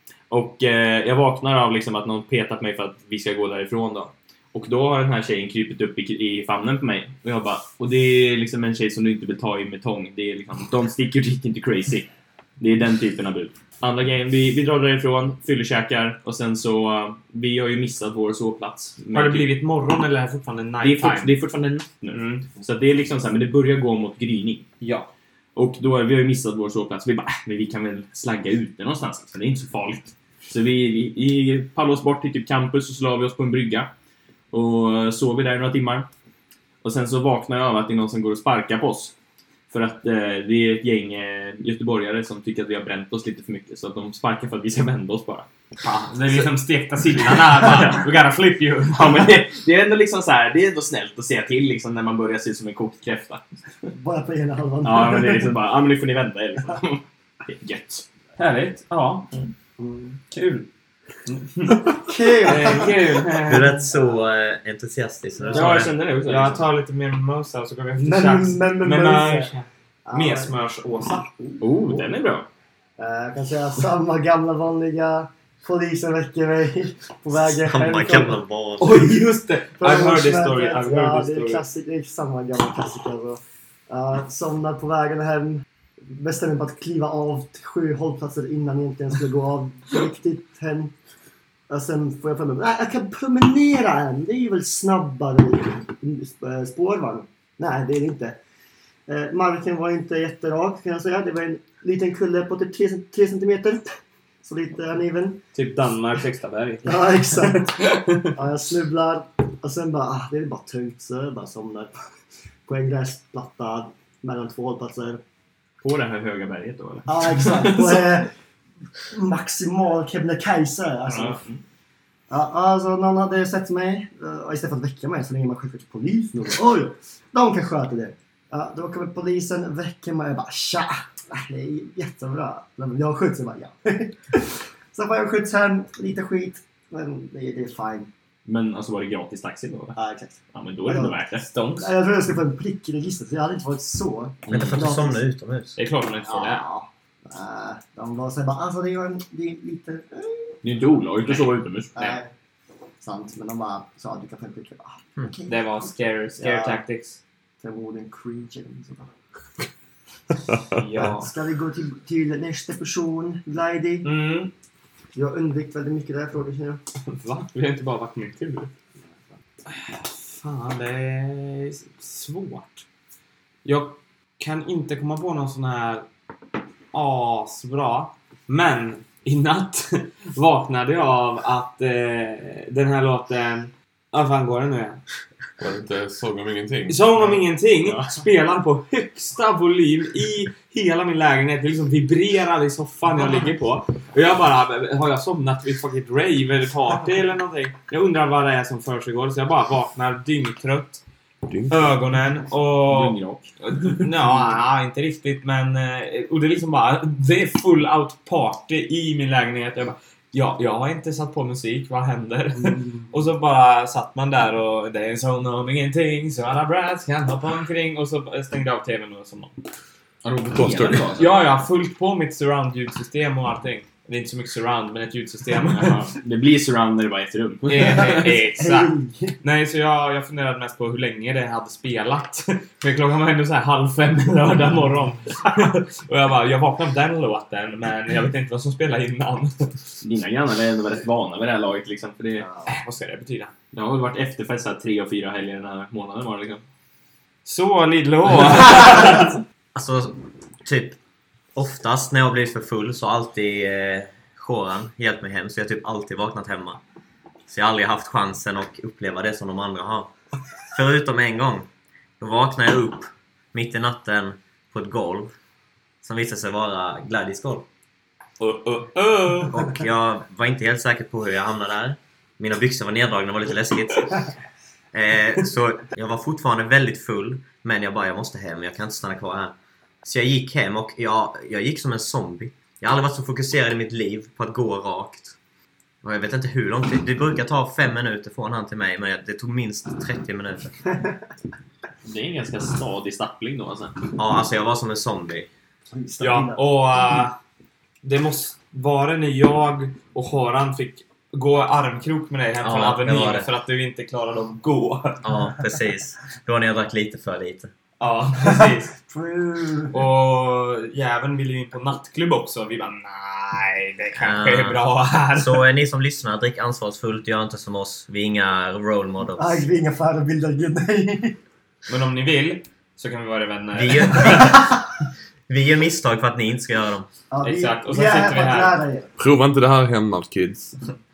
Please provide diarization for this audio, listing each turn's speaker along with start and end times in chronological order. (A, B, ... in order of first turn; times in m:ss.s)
0:00.3-0:19.5 A
0:19.1-0:21.3 B
0:20.8-0:24.7 A
0:22.1-0:22.5 B
0:24.8-0:25.1 B
0:25.6-0:33.9 A
0:34.5-0:36.1 A
0:36.8-0:39.1 A
0:39.7-0:45.5 A
0:45.8-0:49.3 B
0:47.6-0:48.0 A
0:48.9-0:53.4 A
0:53.9-0:55.5 C
0:54.8-0:58.0 A
0:58.4-0:59.3 B
0:59.8-1:00.2 C
1:00.3-1:00.7 B
1:01.3-1:03.9 B
1:01.9-1:03.0 C
1:03.4-1:05.9 D
1:05.5-1:06.7 A
1:05.5-1:11.3 B
1:08.0-1:09.5 C
1:10.1-1:10.5 C
1:11.4-1:12.1 C
1:11.6-1:12.5 A
1:13.0-1:18.4 C
1:17.4-1:19.1 D
1:18.8-1:21.6 B
1:19.8-1:30.9 C
1:31.7-1:38.4 C
1:39.1-1:45.4 C
1:45.5-1:48.3 B
1:46.8-1:51.9 C
1:52.7-1:55.2 C
1:55.8-1:58.2 A
1:57.1-1:58.3 C
1:59.1-2:01.4 C
2:01.1-2:01.6 A
2:02.3-2:18.1 C
2:18.5-2:20.0 A
2:20.0-2:21.2 C
2:20.5-2:21.6 A
2:21.5-2:21.9 B
2:21.8-2:25.2 C
2:24.5-2:24.7 A
2:24.5-2:25.8 D
2:25.8-2:26.6 B
2:26.3-2:30.6 C
2:30.6-2:31.9 A
2:31.3-2:32.2 B
2:32.0-2:32.3 C
2:33.0-2:36.8 C
2:35.5-2:37.2 B
2:37.6-2:39.1 C
2:40.7-2:41.3 B
2:41.0-2:44.1 C
2:44.0-2:44.5 B
2:45.2-2:46.8 C
2:47.1-2:48.7 B
2:49.7-2:52.8 B
2:53.6-2:56.1 B
2:56.9-3:05.0 B
3:05.6-3:07.1 E
3:06.9-3:21.0 B
3:07.9-3:08.1 A
3:21.5-3:21.9 E
3:21.7-3:39.5 B
3:22.9-3:23.5 A
3:40.2-3:41.3 A
3:40.5-3:41.2 E
3:41.2-3:46.0 B
3:45.6-3:48.4 A
3:47.7-3:59.8 B
3:47.7-3:49.4 C
4:00.0-4:02.5 A
4:02.4-4:02.7 C
4:02.7-4:03.5 B
4:03.7-4:06.6 A
4:07.4-4:09.4 B
4:09.8-4:11.0 D
4:11.6-4:16.8 D
4:17.5-4:20.1 D
4:20.7-4:21.7 D
4:22.2-4:25.4 D
4:26.0-4:27.7 D
4:28.4-4:29.6 B
4:29.5-4:34.2 D
4:34.9-4:45.4 D
4:46.0-4:50.8 D
4:52.0-4:54.0 A
4:54.2-4:55.5 D
4:55.9-4:56.6 C
4:56.2-4:57.4 B
4:58.0-5:05.3 B
5:02.6-5:03.5 D
5:05.2-5:07.7 D
5:08.0-5:09.0 B
5:08.4-5:10.0 C
5:09.9-5:15.7 B
5:14.2-5:14.8 D
5:15.4-5:19.6 D
5:19.4-5:21.4 C
5:21.9-5:24.7 B
5:23.7-5:24.8 D
5:25.5-5:27.1 D
5:27.3-5:29.1 C
5:27.4-5:28.8 B
5:29.2-5:30.8 E